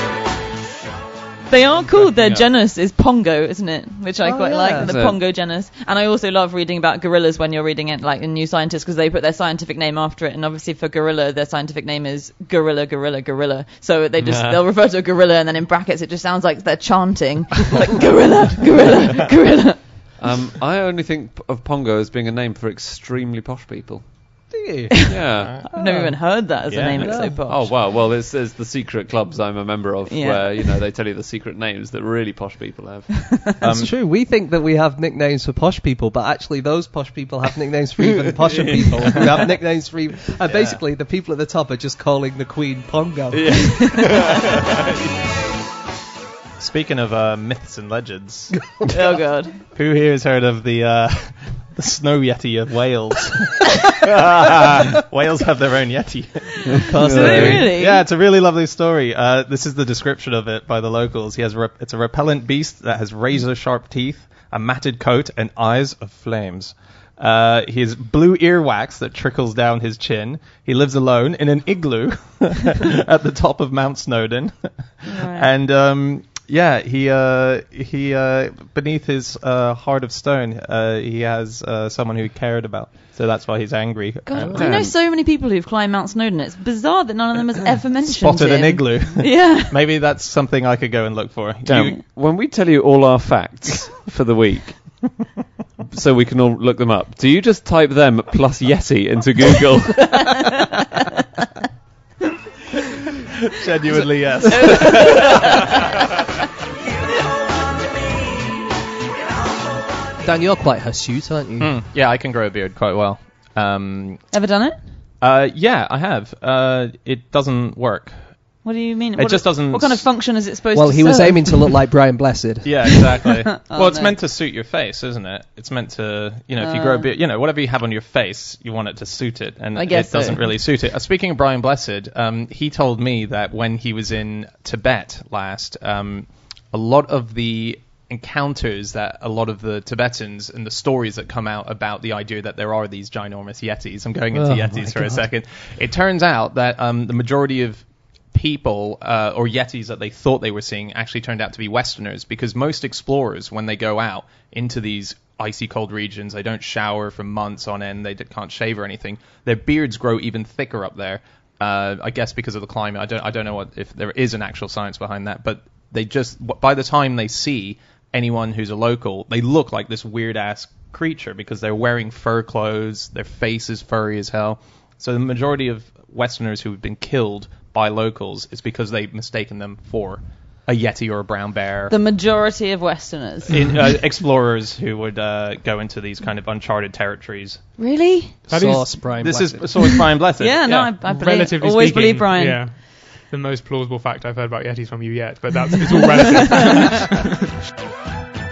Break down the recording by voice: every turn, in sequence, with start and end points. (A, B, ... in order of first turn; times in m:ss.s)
0:01.5-0:20.0 A
0:04.2-0:05.0 B
0:04.8-0:05.2 C
0:14.2-0:14.6 C
0:20.2-0:24.1 C
0:24.5-0:24.9 B
0:24.9-0:27.7 A
0:25.1-0:25.6 C
0:25.3-0:25.6 D
0:25.8-0:26.1 B
0:26.7-0:27.2 D
0:27.0-0:27.4 B
0:27.4-0:33.3 C
0:30.1-0:30.7 A
0:33.6-0:33.9 D
0:33.6-0:44.1 B
0:38.4-0:39.1 C
0:40.5-0:40.8 D
0:43.3-0:45.0 C
0:43.6-0:44.1 A
0:46.6-0:48.6 D
0:48.7-0:49.1 B
0:48.9-0:49.6 A
0:49.7-1:24.8 D
0:56.8-0:57.6 C
0:56.8-0:57.7 B
0:57.0-0:58.0 A
1:15.0-1:15.5 A
1:24.2-1:29.8 A
1:24.5-1:24.9 C
1:28.0-1:32.0 D
1:31.7-1:35.0 C
1:31.7-1:32.0 A
1:35.9-1:40.5 C
1:43.5-1:45.9 D
1:44.5-1:45.9 A
1:50.2-1:51.7 B
1:51.6-1:54.2 D
1:54.3-1:54.8 A
1:55.2-1:58.5 D
1:58.6-2:01.8 A
1:59.2-2:00.0 D
2:00.7-2:02.8 B
2:02.6-3:01.9 D
2:03.4-2:04.2 A
2:06.6-2:07.1 A
2:09.7-2:10.5 A
2:24.3-2:25.2 B
3:01.9-3:03.7 A
3:03.5-3:07.6 D
3:07.8-3:08.4 A
3:08.5-3:09.0 E
3:08.5-3:09.7 B
3:09.1-3:10.9 D
3:09.9-3:12.7 A
3:11.0-3:17.3 E